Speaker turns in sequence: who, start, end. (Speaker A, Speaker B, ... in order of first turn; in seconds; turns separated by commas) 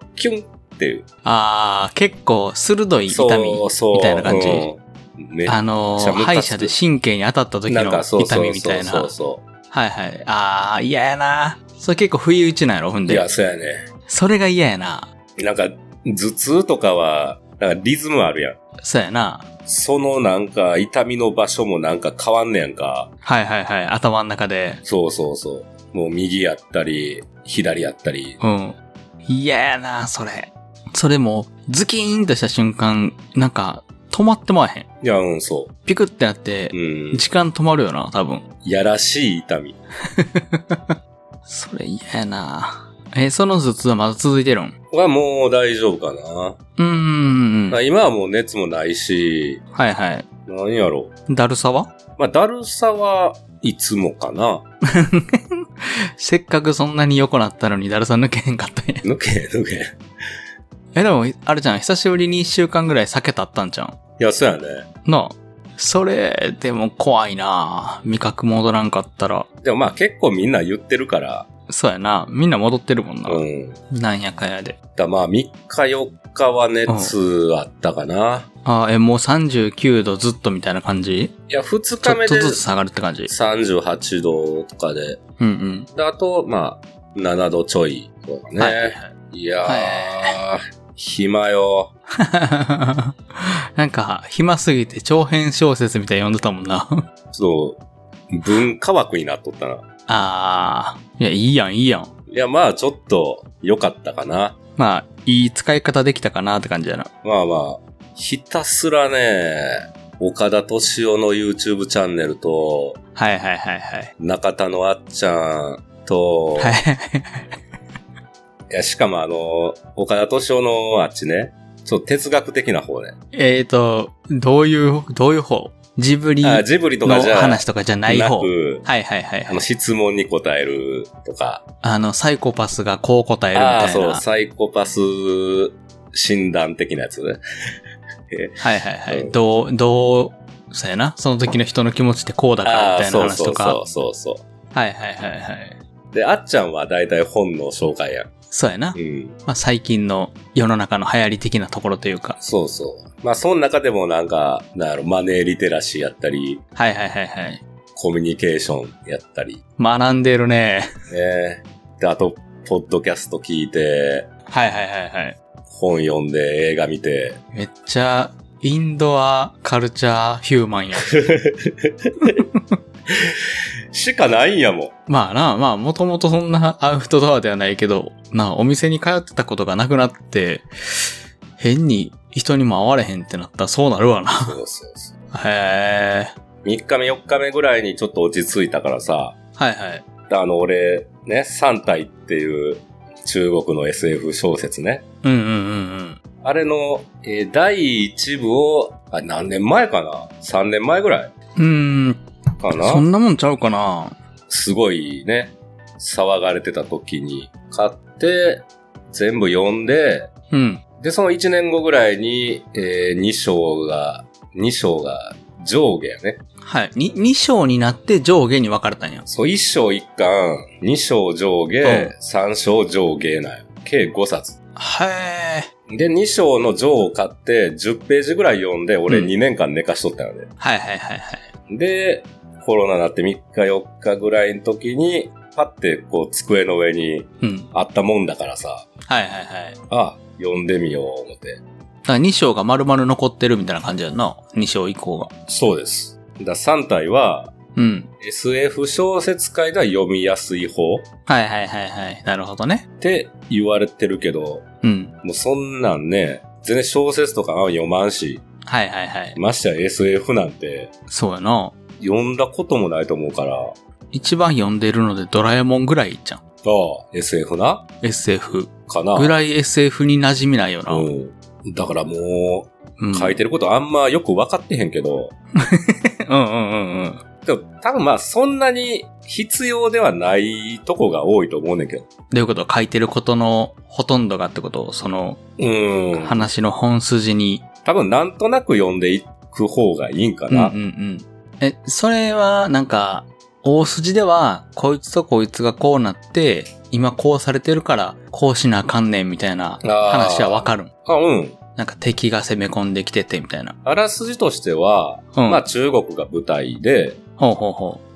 Speaker A: 0.1-1.0, Speaker B: 1.2-4.7, Speaker A: 3.1-6.7, Speaker B: 5.5-9.1, Speaker A: 7.7-9.4, Speaker B: 9.7-13.3, Speaker A: 13.1-13.8, Speaker B: 14.1-15.1, Speaker A: 15.4-18.6, Speaker B: 18.8-19.5, Speaker A: 19.6-23.1, Speaker B: 23.2-24.8, Speaker A: 24.8-28.4, Speaker B: 28.4-34.9, Speaker A: 35.0-35.7, Speaker B: 35.9-38.4, Speaker A: 36.7-37.2, Speaker A: 38.6-39.8, Speaker B: 40.1-44.7, Speaker A: 44.9-46.6, Speaker B: 46.8-47.8, Speaker A: 47.7-49.6, Speaker B: 49.7-50.2, Speaker A: 50.5-51.1, Speaker B: 51.3-51.9, Speaker A: 52.2-54.6, Speaker B: 54.8-59.0, Speaker A: 59.0-59.9, Speaker B: 60.9-64.0, Speaker A: 64.2-64.9, Speaker B: 65.0-69.5, Speaker A: 69.6-71.5, Speaker B: 71.7-74.8, Speaker A: 73.3-73.8, Speaker A: 74.9-78.5, Speaker B: 76.9-77.1, Speaker B: 78.6-81.3, Speaker A: 81.5-82.6, Speaker B: 82.0-83.3, Speaker A: 83.3-85.2, Speaker B: 85.4-85.9, Speaker A: 85.9-91.9, Speaker B: 88.6-89.1, Speaker B: 89.6-90.4, Speaker B: 92.2-97.0, Speaker A: 97.3-99.8, Speaker B: 100.1-102.1, Speaker A: 102.3-104.5, Speaker B: 104.8-107.1, Speaker A: 107.2-113.0, Speaker B: 113.1-114.1, Speaker A: 114.2-116.8, Speaker B: 116.6-117.5, Speaker A: 118.7-123.1, Speaker B: 123.3-129.6, Speaker A: 126.4-128.8, Speaker A: 129.5-131.6, Speaker B: 131.8-134.2, Speaker A: 133.5-137.4, Speaker A: 138.3-139.3, Speaker B: 138.6-143.8, Speaker A: 142.6-144.4, Speaker B: 144.7-145.8, Speaker A: 146.1-148.3, Speaker B: 148.5-152.4, Speaker A: 148.9-149.4, Speaker A: 152.4-156.6, Speaker B: 156.8-157.6, Speaker A: 157.9-159.6, Speaker B: 159.8-160.9, Speaker A: 161.1-164.3, Speaker B: 164.5-165.4, Speaker A: 165.7-167.4, Speaker B: 167.5-171.1, Speaker A: 171.1-172.4, Speaker B: 172.2-172.7, Speaker A: 173.1-174.9, Speaker B: 175.1-184.6, Speaker A: 184.3-185.1, Speaker B: 185.3-186.3, Speaker A: 186.6-189.3, Speaker B: 189.6-190.0, Speaker A: 190.3-195.0, Speaker B: 195.2-196.2, Speaker A: 196.4-201.3, Speaker B: 201.6-202.2, Speaker A: 202.6-203.0, Speaker B: 202.7-204.2, Speaker A: 204.5-210.3, Speaker B: 210.5-210.8, Speaker A: 211.0-216.4, Speaker B: 216.6-219.2, Speaker A: 219.3-224.5, Speaker B: 221.8-222.1, Speaker B: 224.8-225.7, Speaker A: 225.9-230.5, Speaker B: 229.1-229.3, Speaker B: 230.6-231.5, Speaker A: 231.7-238.8, Speaker B: 237.4-237.7, Speaker B: 239.1-239.8, Speaker A: 239.9-241.6, Speaker B: 242.0-245.3, Speaker A: 245.5-247.5, Speaker B: 247.8-248.1, Speaker A: 248.2-251.1, Speaker B: 251.3-252.8, Speaker A: 253.0-254.6, Speaker B: 254.8-255.1, Speaker A: 255.2-258.4, Speaker B: 258.6-259.4, Speaker A: 259.4-260.9, Speaker B: 261.1-261.7, Speaker A: 262.0-263.7, Speaker B: 264.1-266.4, Speaker A: 266.6-267.8, Speaker B: 268.0-271.1, Speaker A: 268.9-269.4, Speaker A: 270.9-275.3, Speaker B: 273.0-273.4, Speaker B: 275.6-277.2, Speaker A: 277.4-282.1, Speaker B: 282.3-285.4, Speaker A: 285.6-286.5, Speaker B: 286.1-287.6, Speaker A: 287.8-290.7, Speaker B: 290.5-300.9, Speaker A: 299.8-301.6, Speaker B: 301.8-303.8, Speaker A: 303.8-307.2, Speaker B: 305.3-305.6, Speaker B: 307.4-308.0